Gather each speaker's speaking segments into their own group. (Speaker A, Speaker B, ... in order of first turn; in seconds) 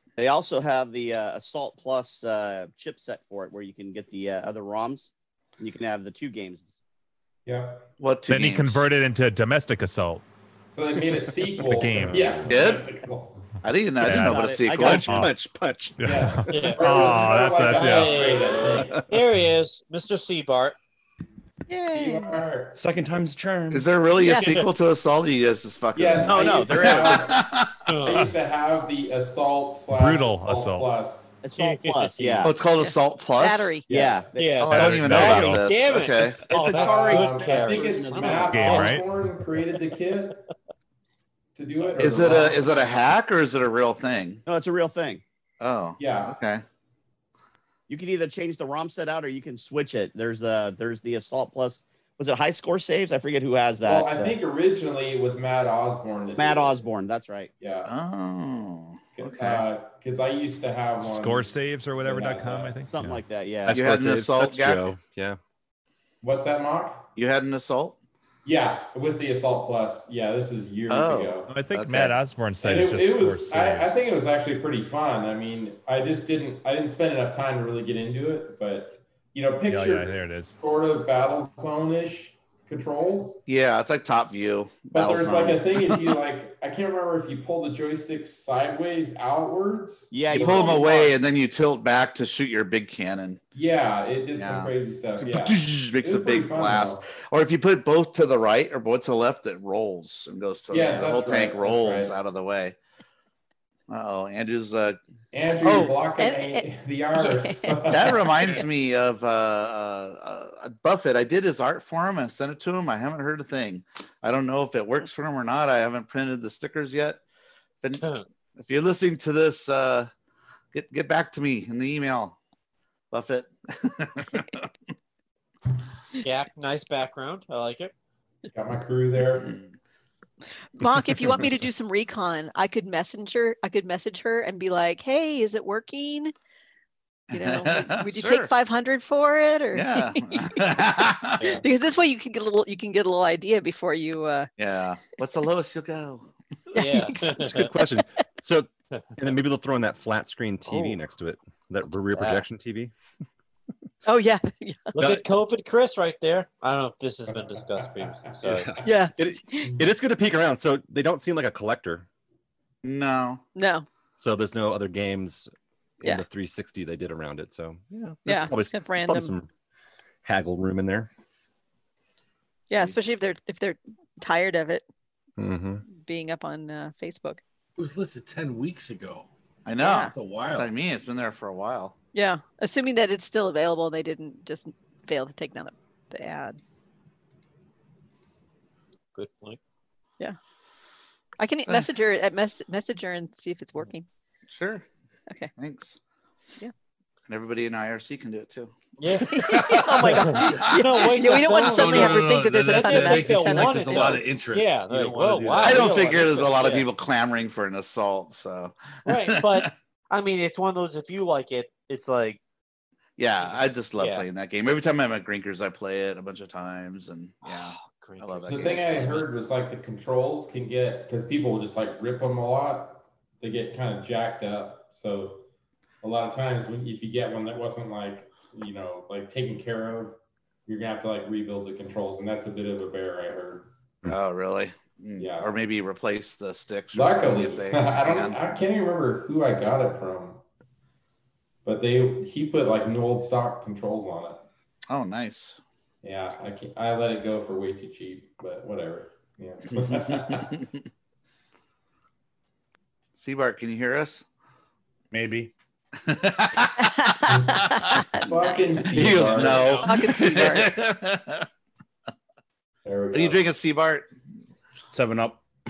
Speaker A: 0.2-6.7, 14.1-15.1, 26.2-27.3, 31.4-32.6, 33.9-34.7, 36.5-38.8, 44.5-45.2, 47.9-54.4, 56.4-57.5, 62.9-63.9, 90.1-91.1
Speaker B: 7.5-7.9, 10.7-13.4, 16.0-19.0, 21.9-22.8, 25.9-27.4, 28.0-31.4, 32.2-32.6, 33.9-34.3, 36.6-40.4, 41.6-43.0, 46.0-46.4, 53.8-56.8, 57.6-57.9, 59.2-61.5, 62.0-62.8, 66.2-67.1, 68.5-71.5, 72.6-83.4, 84.9-91.1, 93.5-97.0, 100.7-102.2, 105.3-108.2, 128.5-129.6, 157.3-158.3, 218.5-225.4, 226.0-233.7, 235.2-235.5, 236.9-240.4, 241.7-244.4, 246.0-250.6, 257.3-257.6, 258.3-259.8, 262.9-263.4
Speaker C: 8.0-8.9, 12.5-12.8, 13.6-15.3, 23.7-27.7, 32.4-33.8, 34.6-36.5, 42.0-44.4, 45.6-46.6, 57.9-59.7, 63.7-64.9, 67.2-68.0, 70.9-72.2, 83.5-86.2, 90.3-93.4, 94.3-102.8, 103.9-105.0, 107.9-117.2, 117.8-120.1, 120.7-122.4, 123.1-124.7, 129.4-129.7, 137.3-138.5, 139.7-141.4, 144.6-146.3, 162.8-163.4, 179.7-181.9, 194.5-194.9, 195.6-195.9, 197.3-201.0, 205.6-209.7, 213.2-219.2, 234.1-238.4, 244.9-245.6, 249.8-250.6, 253.2-254.2, 256.0-258.0, 258.9-261.5, 263.1-264.1
Speaker D: 8.3-10.2, 11.7-12.5, 14.0-14.4, 15.1-15.3, 16.0-18.3, 29.9-30.9, 34.7-35.7, 38.5-39.0, 61.0-63.2, 71.5-74.0, 79.7-80.6
Speaker E: 14.1-16.7, 18.7-19.1, 63.7-65.4, 105.6-105.9, 147.4-152.9, 155.0-155.2, 158.4-162.1, 164.2-165.5, 166.0-169.5, 170.2-171.1, 175.4-175.8
Speaker F: 16.5-17.1, 17.7-20.8, 27.9-28.3, 31.6-31.9, 34.4-39.0, 118.0-118.2, 126.2-127.9, 141.4-141.6, 146.8-147.7, 154.9-158.8, 189.2-189.6, 199.0-206.9, 209.1-212.4, 213.4-214.2, 217.4-219.2, 259.3-259.9
Speaker G: 21.7-22.4, 24.2-24.6, 32.8-33.9, 106.2-106.6, 107.2-108.2, 130.8-136.3, 137.3-140.6, 141.6-144.5, 146.8-147.3, 154.1-155.0, 158.8-159.8, 163.6-163.8, 168.2-169.3, 172.7-174.8, 175.8-177.4, 179.8-180.1, 182.1-186.6, 191.4-194.1, 199.3-204.2, 256.8-260.8
Speaker H: 22.7-23.9, 255.1-255.5, 264.9-265.4
Speaker I: 177.8-179.3, 179.8-180.7, 200.4-200.7, 201.4-206.1